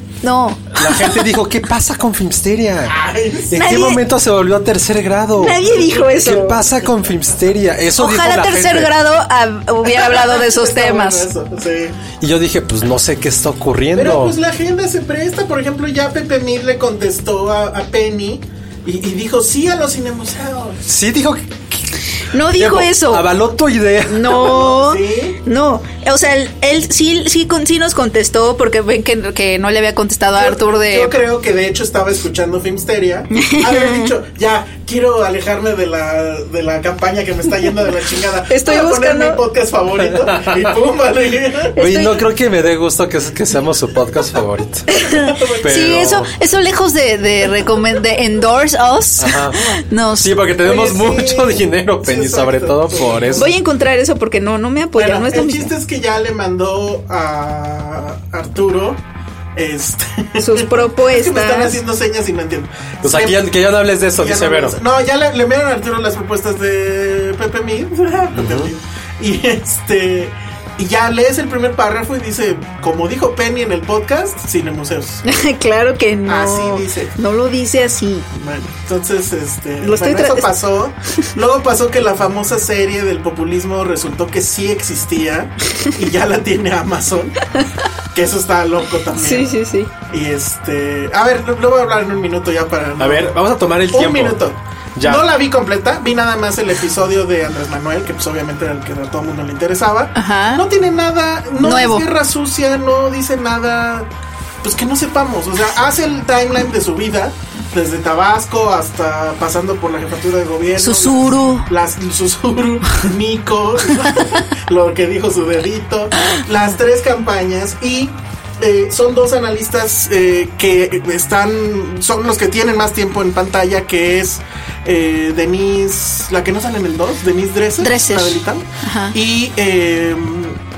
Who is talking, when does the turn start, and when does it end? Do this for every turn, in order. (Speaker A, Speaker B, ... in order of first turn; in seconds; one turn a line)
Speaker A: 0.2-1.3
Speaker B: 0.8-8.9
Speaker C: 2.9-3.5
Speaker A: 3.5-4.0
Speaker A: 5.4-6.6
Speaker A: 8.0-11.3
Speaker C: 9.8-12.0
Speaker B: 12.2-14.4
Speaker C: 13.9-20.8
Speaker B: 20.9-24.7
Speaker A: 22.2-23.3
Speaker A: 24.1-31.2
Speaker C: 24.5-25.4
Speaker C: 30.4-41.7
Speaker A: 33.3-34.1
Speaker A: 38.5-39.4
Speaker B: 40.0-40.8
Speaker A: 41.7-42.2
Speaker B: 41.8-44.9
Speaker A: 44.9-50.5
Speaker C: 45.1-45.9
Speaker B: 45.6-46.3
Speaker B: 49.2-53.5
Speaker C: 50.6-53.5
Speaker A: 53.4-55.7
Speaker C: 55.0-59.0
Speaker C: 59.5-63.5
Speaker A: 60.4-61.8
Speaker B: 63.0-64.8
Speaker C: 64.2-75.2
Speaker B: 68.3-68.7
Speaker A: 75.2-78.3
Speaker C: 76.3-77.1
Speaker C: 78.3-87.5
Speaker A: 79.8-80.5
Speaker C: 88.1-89.5
Speaker A: 89.2-89.9
Speaker C: 90.1-93.4
Speaker B: 93.0-95.3
Speaker C: 93.9-104.1
Speaker A: 100.2-100.6
Speaker A: 101.6-102.1
Speaker C: 104.6-130.6
Speaker A: 110.8-111.7
Speaker A: 127.8-129.2